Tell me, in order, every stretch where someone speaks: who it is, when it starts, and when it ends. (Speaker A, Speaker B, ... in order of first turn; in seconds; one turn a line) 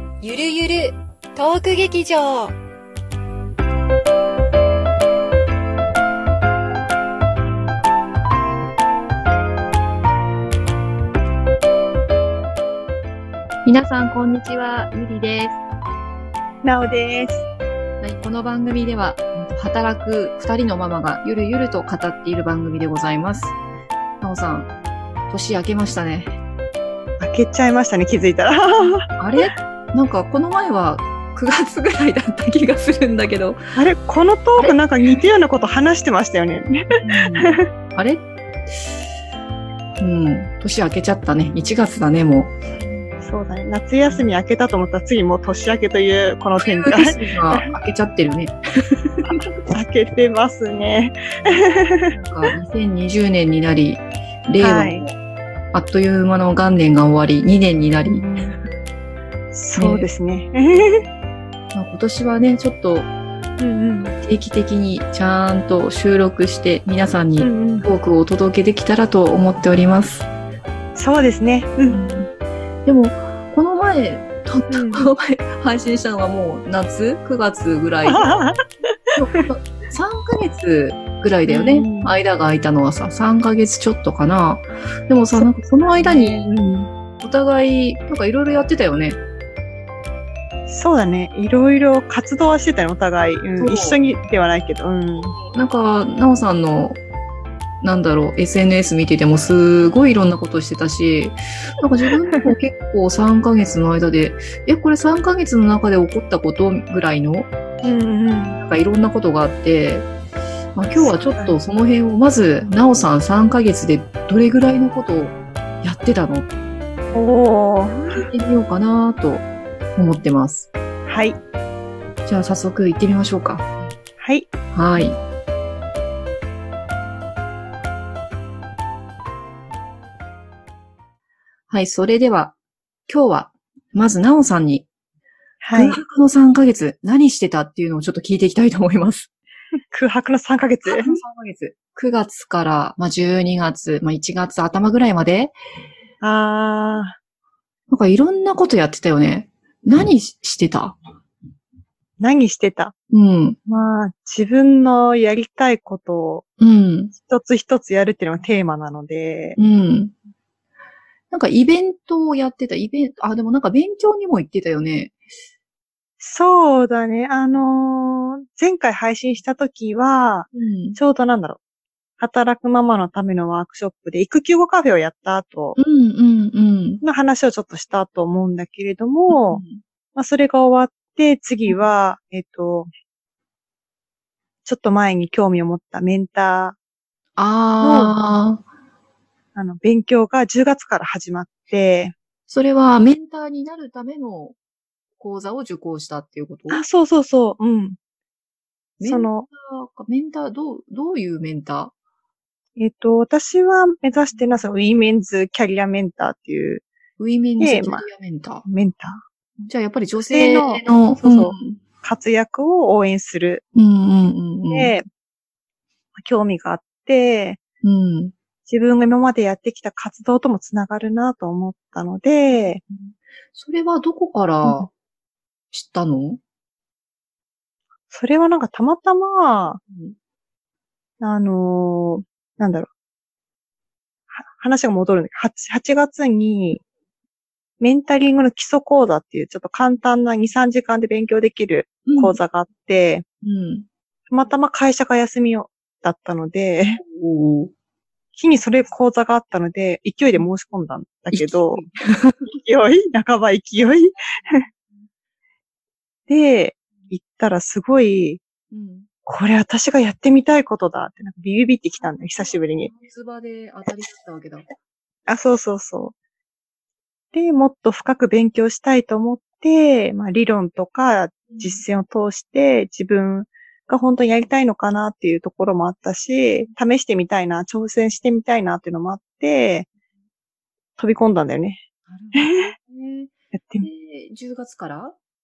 Speaker A: 0.2-2.6
Speaker B: 13.7-15.6
Speaker C: 16.6-17.4
Speaker B: 18.0-23.6
Speaker B: 24.2-24.7
Speaker B: 25.3-26.4
Speaker C: 27.2-29.1
Speaker B: 29.1-33.6
Speaker C: 33.8-37.6
Speaker B: 37.0-38.2
Speaker B: 40.0-42.5
Speaker C: 43.2-47.7
Speaker B: 46.6-49.4
Speaker C: 49.2-52.2
Speaker B: 52.1-55.2
Speaker C: 54.6-55.0
Speaker B: 55.7-58.3
Speaker C: 58.1-58.6
Speaker C: 59.5-61.0
Speaker B: 59.8-60.1
Speaker B: 61.7-63.1
Speaker C: 63.6-64.2
Speaker B: 64.2-70.3
Speaker C: 67.4-67.9
Speaker C: 71.0-72.0
Speaker B: 71.9-72.3
Speaker B: 72.9-78.4
Speaker C: 74.7-75.1
Speaker C: 78.1-78.6
Speaker B: 79.1-86.5
Speaker C: 81.5-82.1
Speaker C: 85.3-86.9
Speaker B: 87.2-89.2
Speaker C: 90.7-95.4
Speaker B: 93.6-94.0
Speaker B: 95.5-97.0
Speaker B: 97.8-107.5
Speaker C: 107.8-108.6
Speaker B: 108.6-110.1
Speaker B: 110.8-116.5
Speaker C: 111.0-111.6
Speaker C: 117.1-118.2
Speaker B: 118.1-120.7
Speaker C: 121.1-121.4
Speaker B: 122.2-123.7
Speaker C: 124.2-124.5
Speaker B: 124.7-125.2
Speaker B: 131.7-132.6
Speaker B: 133.1-134.9
Speaker C: 135.6-136.0
Speaker B: 135.7-139.3
Speaker C: 139.9-141.2
Speaker B: 140.9-145.6
Speaker C: 146.2-147.2
Speaker B: 147.9-151.0
Speaker C: 152.2-152.9
Speaker B: 153.1-153.6
Speaker C: 153.7-156.5
Speaker B: 156.6-157.1
Speaker C: 157.1-159.6
Speaker B: 159.6-160.1
Speaker B: 161.3-165.1
Speaker C: 166.2-171.6
Speaker B: 170.6-171.0
Speaker C: 172.2-175.8
Speaker B: 175.8-177.0
Speaker C: 177.0-179.6
Speaker B: 179.3-179.8
Speaker C: 180.2-182.9
Speaker C: 184.7-186.8
Speaker B: 187.4-188.6
Speaker C: 187.8-188.2
Speaker C: 189.6-192.2
Speaker B: 192.5-194.6
Speaker B: 195.2-196.8
Speaker C: 196.7-198.0
Speaker B: 199.0-201.9
Speaker C: 199.0-199.5
Speaker C: 202.8-206.8
Speaker B: 207.2-208.7
Speaker C: 207.6-208.1
Speaker C: 208.7-209.2
Speaker B: 209.6-211.8
Speaker C: 210.2-213.6
Speaker B: 213.8-214.9
Speaker C: 214.7-215.1
Speaker C: 216.2-217.6
Speaker B: 217.8-218.3
Speaker C: 218.7-222.8
Speaker B: 222.9-224.9
Speaker C: 224.6-224.9
Speaker B: 225.7-226.4
Speaker C: 228.1-229.8
Speaker B: 229.9-230.2
Speaker C: 231.2-232.9
Speaker C: 234.3-236.8
Speaker C: 237.8-243.2
Speaker B: 242.1-242.4
Speaker B: 243.4-243.9
Speaker C: 244.3-247.0
Speaker B: 247.0-247.7
Speaker C: 248.3-251.8
Speaker B: 251.3-252.4
Speaker C: 252.5-254.6
Speaker B: 254.2-254.9
Speaker C: 256.3-258.4
Speaker B: 258.7-259.1
Speaker C: 259.2-262.9
Speaker B: 262.4-264.7
Speaker C: 265.3-266.1
Speaker C: 267.3-279.9
Speaker B: 271.5-271.8
Speaker C: 281.0-281.8
Speaker B: 282.1-285.2
Speaker C: 282.3-282.7
Speaker C: 283.5-283.9